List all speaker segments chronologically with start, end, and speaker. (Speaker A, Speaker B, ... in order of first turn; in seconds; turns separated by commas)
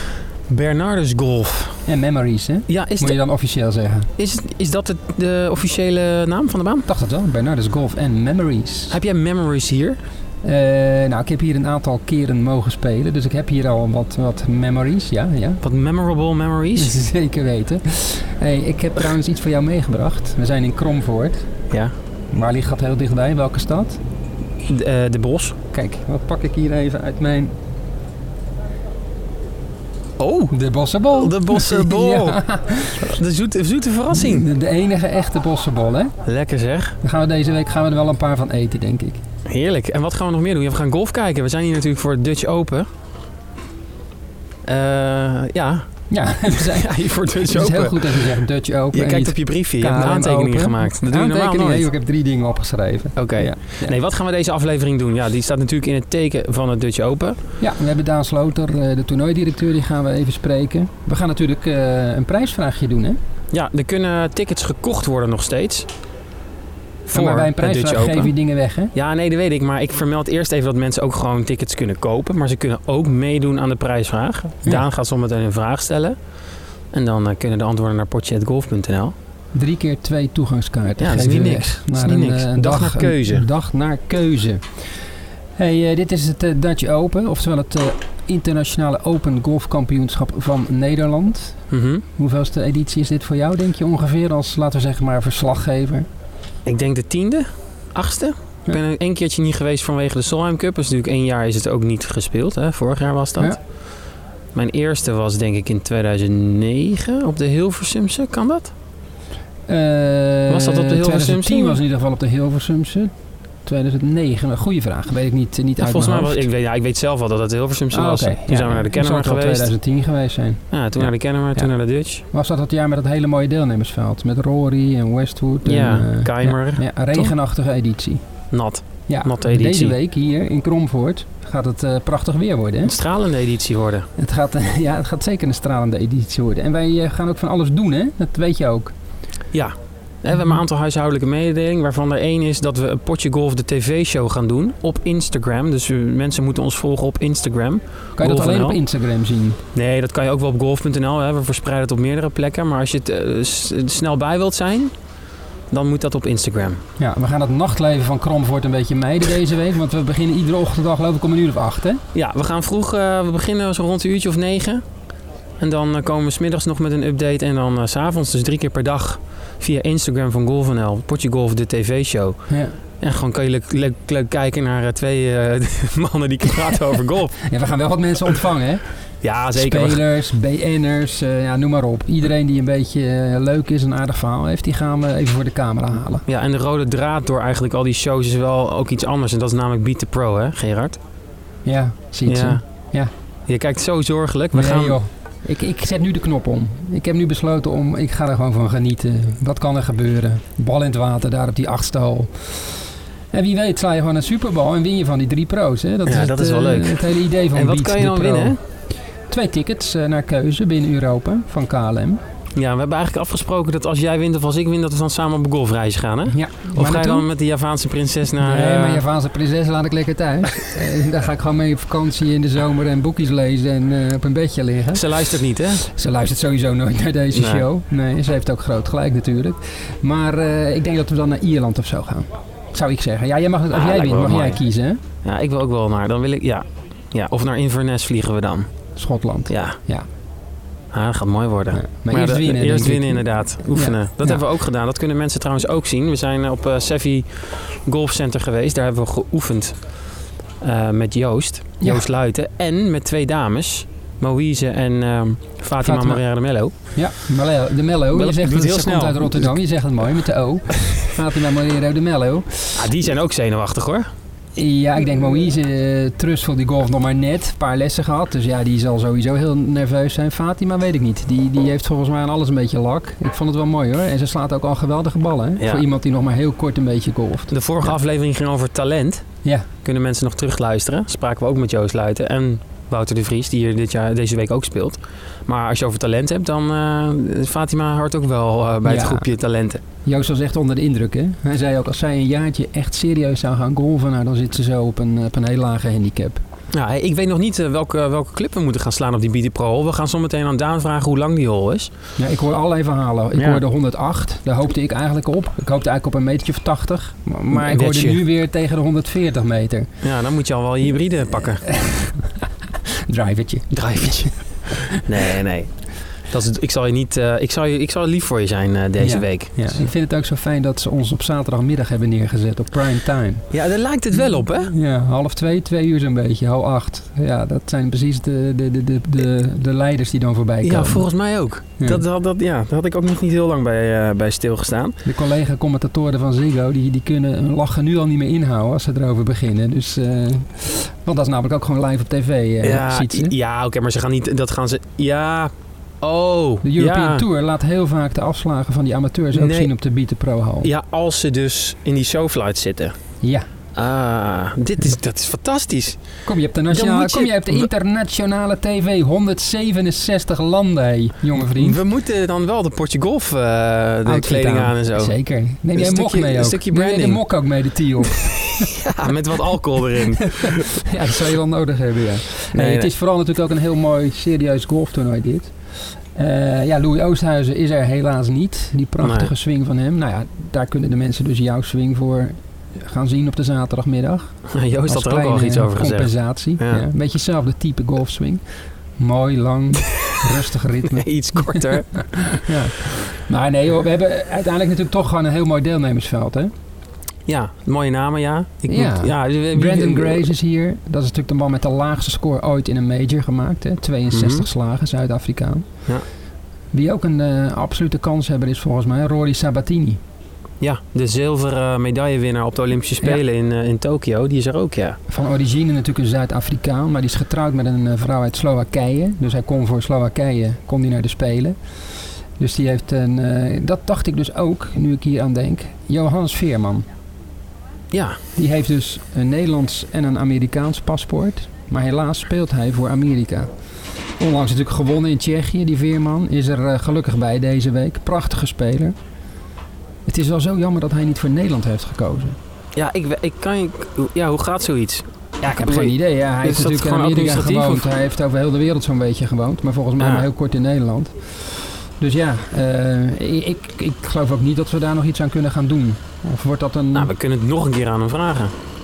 Speaker A: 0.5-1.8, Speaker B: 1.8-4.1, Speaker A: 2.7-3.2, Speaker A: 4.2-6.9, Speaker B: 6.8-8.9, Speaker A: 8.9-10.0, Speaker B: 10.4-15.6, Speaker A: 15.6-16.9, Speaker B: 16.8-21.6, Speaker B: 22.3-24.0, Speaker A: 24.6-25.6, Speaker B: 25.7-27.6, Speaker A: 30.2-34.5, Speaker B: 30.5-33.2, Speaker B: 34.1-36.1, Speaker A: 36.2-37.0, Speaker B: 37.0-39.2, Speaker A: 39.4-42.9, Speaker A: 44.6-51.9, Speaker B: 46.1-54.0, Speaker A: 53.1-57.4, Speaker B: 57.6-63.2, Speaker A: 63.5-65.9, Speaker B: 67.1-68.9, Speaker A: 67.1-68.4, Speaker A: 68.9-79.2, Speaker B: 79.5-96.1, Speaker A: 81.0-83.5, Speaker A: 91.7-92.0, Speaker A: 96.6-108.7, Speaker B: 109.7-116.4, Speaker A: 110.5-111.8, Speaker A: 115.8-119.8, Speaker B: 117.9-128.2, Speaker A: 120.7-122.2, Speaker A: 125.6-127.3, Speaker A: 128.5-129.9, Speaker B: 129.1-132.9, Speaker A: 132.8-134.1, Speaker B: 134.2-139.0, Speaker A: 139.5-148.9, Speaker B: 140.3-140.6, Speaker B: 148.2-149.6, Speaker A: 149.7-156.8, Speaker B: 157.0-162.0, Speaker A: 162.1-177.5, Speaker B: 172.5-172.8, Speaker B: 177.4-186.2, Speaker A: 179.2-180.0, Speaker A: 186.2-191.0, Speaker B: 191.6-193.1, Speaker A: 192.2-192.9, Speaker A: 193.5-195.0, Speaker B: 194.5-212.2, Speaker A: 206.1-208.6, Speaker A: 212.5-219.0, Speaker B: 216.3-217.3, Speaker B: 218.4-235.0, Speaker A: 224.9-225.8, Speaker A: 227.3-227.6, Speaker A: 233.7-234.7, Speaker A: 235.2-238.9, Speaker B: 238.9-240.1, Speaker A: 239.5-239.8, Speaker A: 240.9-257.0, Speaker B: 241.7-244.4, Speaker B: 255.8-262.9, Speaker A: 258.1-260.2, Speaker A: 262.8-264.1, Speaker B: 264.6-278.0, Speaker A: 275.6-275.8, Speaker A: 277.5-289.8, Speaker B: 288.8-289.3, Speaker B: 290.0-296.4, Speaker A: 296.7-302.0, Speaker B: 302.2-310.0, Speaker A: 303.3-303.6, Speaker A: 307.5-308.2, Speaker A: 310.0-311.8, Speaker B: 311.7-312.4, Speaker B: 313.1-314.7, Speaker A: 313.7-319.9, Speaker B: 319.0-323.5, Speaker A: 323.5-324.7, Speaker B: 324.1-331.1, Speaker A: 330.6-335.0, Speaker B: 331.8-332.0, Speaker B: 335.0-343.3, Speaker A: 342.6-347.2, Speaker B: 346.6-350.7, Speaker A: 349.3-349.7, Speaker A: 350.6-353.2, Speaker B: 353.2-353.5, Speaker A: 353.7-357.7, Speaker B: 356.2-361.8, Speaker A: 361.4-367.3, Speaker B: 364.0-368.7, Speaker A: 368.8-370.7, Speaker B: 370.8-396.5, Speaker A: 372.5-372.9, Speaker A: 379.0-379.3, Speaker A: 384.5-386.9, Speaker A: 390.9-392.5, Speaker A: 397.2-400.3, Speaker B: 398.7-406.0, Speaker A: 404.1-404.4, Speaker B: 406.7-410.0, Speaker A: 410.6-415.0, Speaker B: 415.1-426.9, Speaker A: 427.9-428.2, Speaker B: 428.4-438.9, Speaker B: 440.1-442.4, Speaker A: 442.7-447.9, Speaker B: 445.4-457.1, Speaker A: 450.0-450.2, Speaker A: 456.9-458.5